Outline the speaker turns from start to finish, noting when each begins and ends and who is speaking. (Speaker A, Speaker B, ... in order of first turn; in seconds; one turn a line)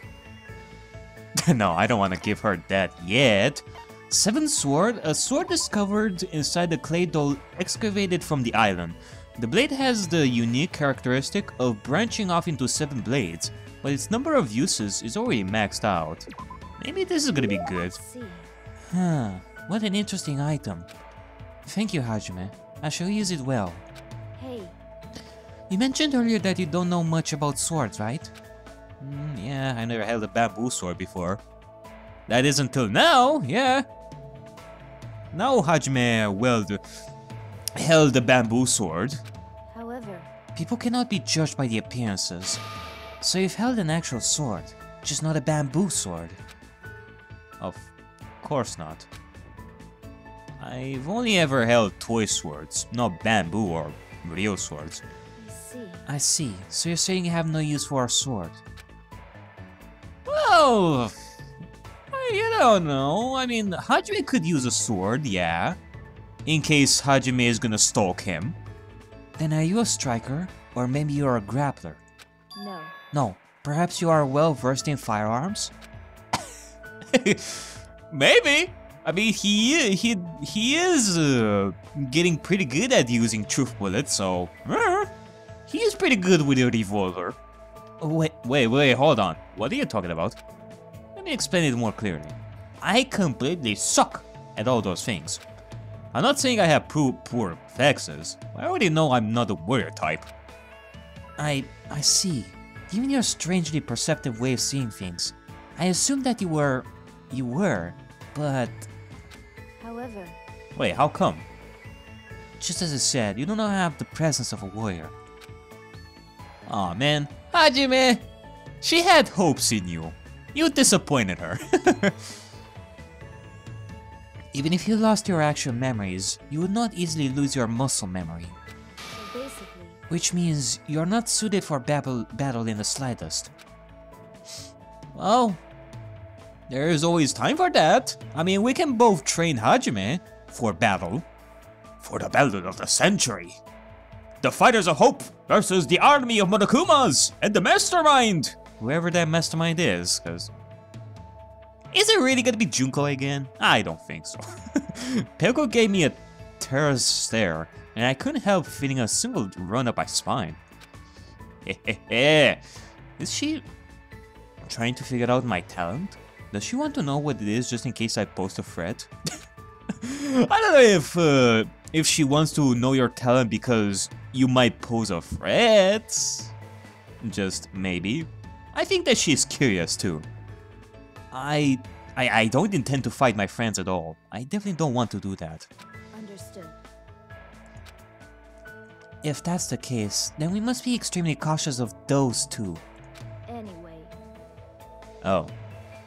Speaker A: 1.4-16.3
Speaker A: 16.8-18.0
Speaker B: 17.9-18.5
Speaker A: 18.9-20.9
Speaker A: 21.7-23.9
Speaker B: 24.4-24.8
Speaker A: 25.7-28.3
Speaker A: 29.0-31.4
Speaker A: 32.3-33.9
Speaker A: 35.3-36.8
Speaker A: 37.8-39.2
Speaker B: 39.7-40.3
Speaker A: 40.5-42.6
Speaker A: 43.2-46.4
Speaker A: 47.6-49.1
Speaker A: 50.6-55.0
Speaker B: 55.4-56.1
Speaker A: 56.1-58.6
Speaker A: 60.3-61.1
Speaker A: 62.1-65.8
Speaker A: 66.5-68.6
Speaker A: 69.4-72.0
Speaker B: 72.5-72.9
Speaker A: 73.1-75.7
Speaker A: 77.1-85.1
Speaker A: 85.7-87.4
Speaker A: 88.0-90.4
Speaker A: 91.2-95.4
Speaker A: 96.1-100.3
Speaker A: 101.4-108.9
Speaker B: 109.8-110.4
Speaker A: 110.8-111.5
Speaker A: 112.6-115.1
Speaker A: 116.7-118.2
Speaker A: 118.8-122.2
Speaker A: 124.5-128.6
Speaker B: 129.1-130.0
Speaker A: 130.1-133.5
Speaker A: 135.2-135.6
Speaker A: 136.7-141.3
Speaker A: 142.0-143.6
Speaker A: 144.4-150.5
Speaker A: 151.9-160.6
Speaker A: 161.7-162.6
Speaker A: 163.2-163.7
Speaker A: 164.7-169.1
Speaker A: 170.0-176.5
Speaker A: 177.2-180.3
Speaker A: 181.3-185.7
Speaker B: 186.1-186.8
Speaker A: 189.2-192.8
Speaker B: 193.5-194.2
Speaker A: 195.2-195.5